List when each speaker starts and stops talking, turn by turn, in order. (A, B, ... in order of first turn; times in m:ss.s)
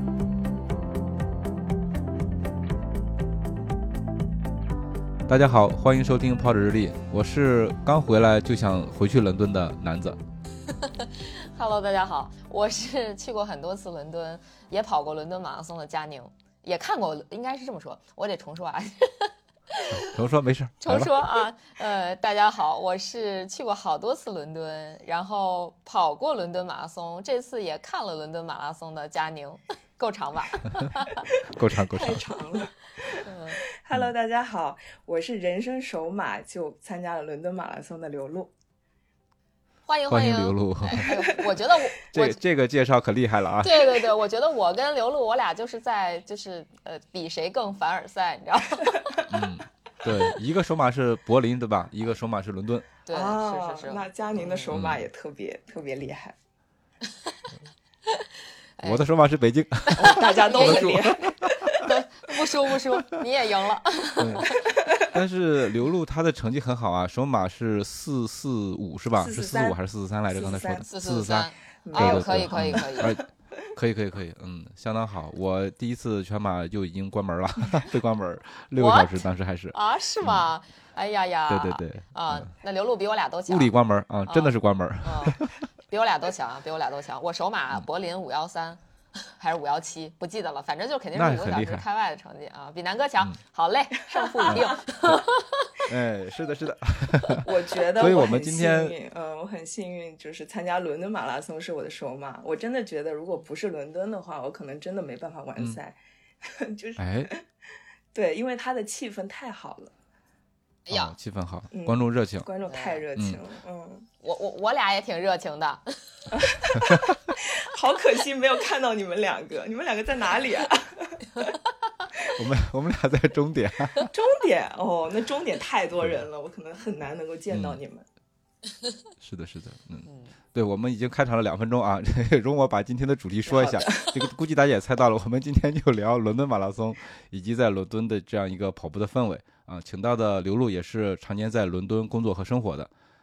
0:05.3-0:10.2 A
0:10.8-0:20.1 B
0:20.1-0:21.1 A
0:20.8-0:31.2 B
0:31.4-0:38.5 C
0:31.5-0:32.2 A
0:33.2-0:33.6 B
0:39.8-0:42.4 B
0:40.1-0:41.1 A
0:42.0-0:44.0 A
0:43.6-0:49.2 B
0:49.3-0:52.9 A
0:53.0-0:54.8 B
0:53.1-0:56.3 C
0:54.7-0:55.1 A
0:58.1-0:59.0 B
0:58.8-1:01.7 A
1:00.0-1:01.0 B
1:00.0-1:01.9 C
1:01.8-1:04.7 B
1:04.2-1:20.4 A
1:09.2-1:09.8 C
1:10.3-1:10.9 C
1:10.9-1:13.1 B
1:11.8-1:13.1 C
1:18.8-1:23.7 B
1:21.5-1:22.5 A
1:23.5-1:25.6 A
1:24.2-1:35.8 B
1:31.1-1:31.8 A
1:34.1-1:34.7 C
1:34.5-1:35.2 A
1:35.9-1:37.4 A
1:37.4-1:47.4 C
1:38.0-1:39.0 A
1:47.0-1:47.3 A
1:48.1-1:49.9 C
1:50.9-1:51.2 B
1:50.9-1:52.5 A
1:51.7-1:54.1 C
1:52.7-1:53.0 B
1:54.2-1:56.4 B
1:56.3-2:01.6 C
2:02.3-2:04.1 A
2:04.1-2:08.0 C
2:07.5-2:07.8 A
2:09.2-2:22.9 A
2:10.0-2:10.3 B
2:13.4-2:14.3 C